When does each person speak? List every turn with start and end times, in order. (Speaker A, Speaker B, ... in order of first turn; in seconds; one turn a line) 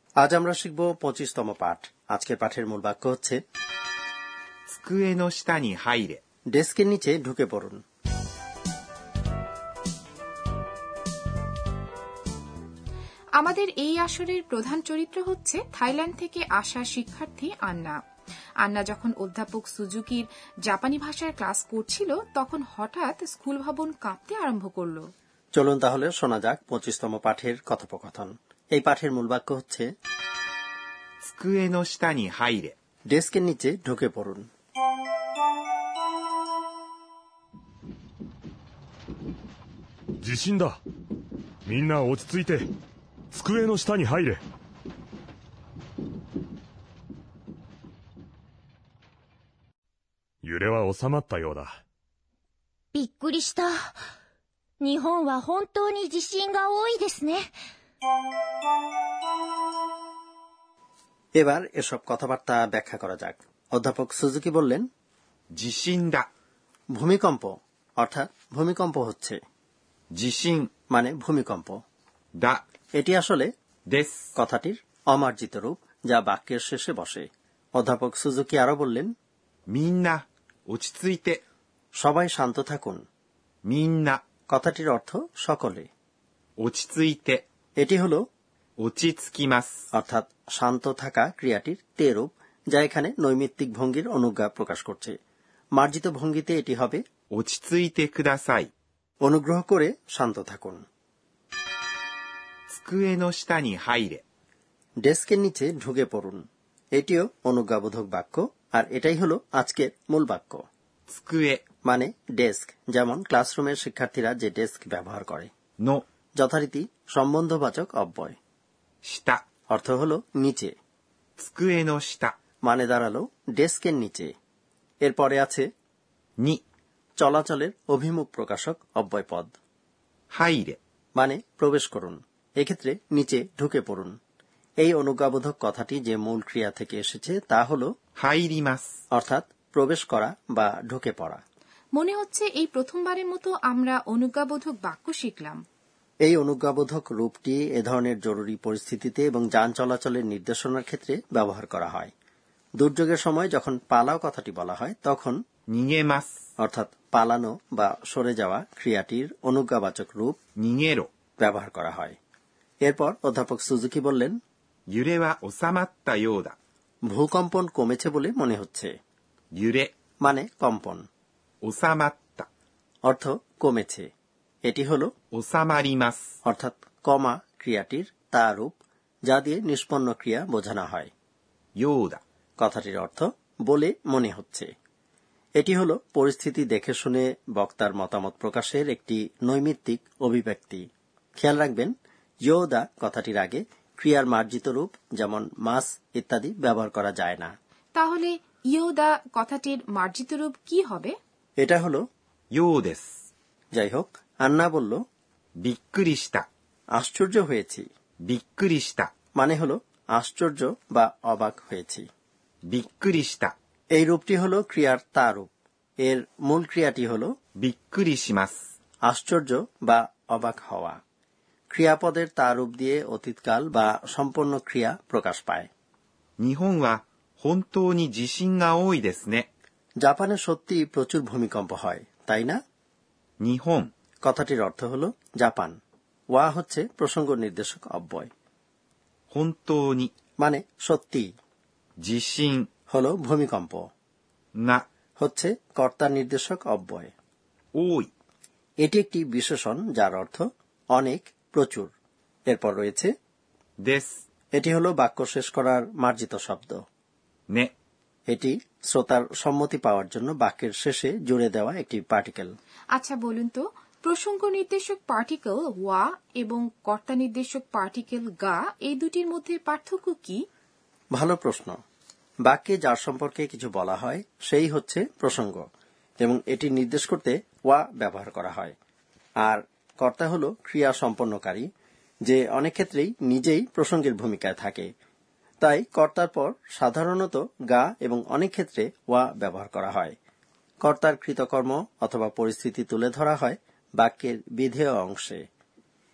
Speaker A: 0.2-3.4
Speaker B: 4.7-6.2
Speaker A: 6.5-7.8
Speaker C: 13.4-18.0
Speaker C: 18.6-25.1
Speaker A: 25.6-29.9
Speaker B: 31.2-32.7
Speaker A: 33.1-34.4
Speaker D: 40.2-40.8
Speaker D: 41.6-42.6
Speaker D: 43.3-44.4
Speaker D: 50.4-51.8
Speaker E: 52.9-53.9
Speaker E: 54.8-57.5
Speaker A: 61.4-64.8
Speaker B: 65.5-66.3
Speaker A: 66.9-69.4
Speaker B: 70.2-70.7
Speaker A: 70.9-71.8
Speaker A: 73.0-73.5
Speaker B: 73.9-74.2
Speaker A: 74.3-77.2
Speaker A: 77.8-79.1
Speaker B: 79.7-81.4
Speaker A: 82.0-83.0
Speaker B: 83.7-84.2
Speaker A: 84.5-85.9
Speaker B: 86.6-87.4
Speaker A: 87.8-88.2
Speaker B: 88.8-89.7
Speaker A: 89.9-95.1
Speaker A: 95.8-97.0
Speaker B: 97.3-98.7
Speaker A: 99.2-100.8
Speaker B: 102.7-104.2
Speaker A: 105.0-106.4
Speaker A: 106.9-110.6
Speaker B: 111.1-111.6
Speaker A: 111.8-115.5
Speaker A: 116.4-118.3
Speaker B: 119.1-119.4
Speaker A: 119.7-120.7
Speaker B: 121.4-122.3
Speaker A: 122.6-124.3
Speaker A: 125.0-125.6
Speaker A: 127.2-129.5
Speaker B: 130.3-130.8
Speaker A: 131.2-134.1
Speaker A: 134.8-137.9
Speaker B: 138.2-138.9
Speaker A: 139.1-141.4
Speaker C: 141.9-145.6
Speaker A: 146.2-152.1
Speaker A: 152.8-155.4
Speaker B: 155.7-156.3
Speaker A: 156.6-160.4
Speaker B: 160.6-161.1
Speaker A: 161.4-162.2
Speaker A: 162.8-164.3
Speaker B: 164.9-166.6
Speaker A: 167.1-168.9
Speaker B: 169.6-169.9
Speaker A: 170.2-171.0
Speaker B: 171.6-172.5
Speaker A: 173.1-174.1
Speaker A: 174.6-175.1
Speaker B: 175.3-176.2
Speaker A: 176.4-181.1
Speaker B: 181.8-182.2
Speaker A: 182.6-184.7
Speaker A: 185.6-190.8
Speaker A: 191.4-191.9
Speaker A: 192.4-197.5
Speaker C: 197.9-201.1
Speaker A: 201.6-202.0
Speaker B: 202.5-203.1
Speaker A: 203.7-205.0
Speaker B: 205.6-206.4
Speaker A: 206.9-207.8
Speaker B: 208.2-209.1
Speaker A: 209.4-212.1
Speaker B: 212.7-213.5
Speaker A: 213.9-215.5
Speaker A: 216.0-217.3
Speaker B: 217.6-218.6
Speaker A: 219.1-221.0
Speaker A: 221.7-225.7
Speaker B: 226.4-229.5
Speaker A: 230.0-232.6
Speaker B: 233.4-233.9
Speaker A: 234.2-235.7
Speaker A: 236.3-238.3
Speaker B: 239.3-240.1
Speaker A: 240.4-241.3
Speaker B: 242.0-242.7
Speaker A: 242.9-243.8
Speaker B: 244.6-244.8
Speaker A: 245.2-247.1
Speaker B: 247.8-248.1
Speaker A: 248.8-250.4
Speaker A: 250.9-251.9
Speaker A: 252.5-253.1
Speaker B: 253.8-254.1
Speaker A: 254.5-256.8
Speaker A: 258.3-262.5
Speaker C: 262.9-270.4
Speaker A: 271.1-271.8
Speaker A: 272.4-275.6
Speaker A: 276.2-278.7
Speaker A: 279.4-281.6
Speaker A: 282.2-284.9
Speaker A: 285.6-290.1
Speaker A: 290.8-295.4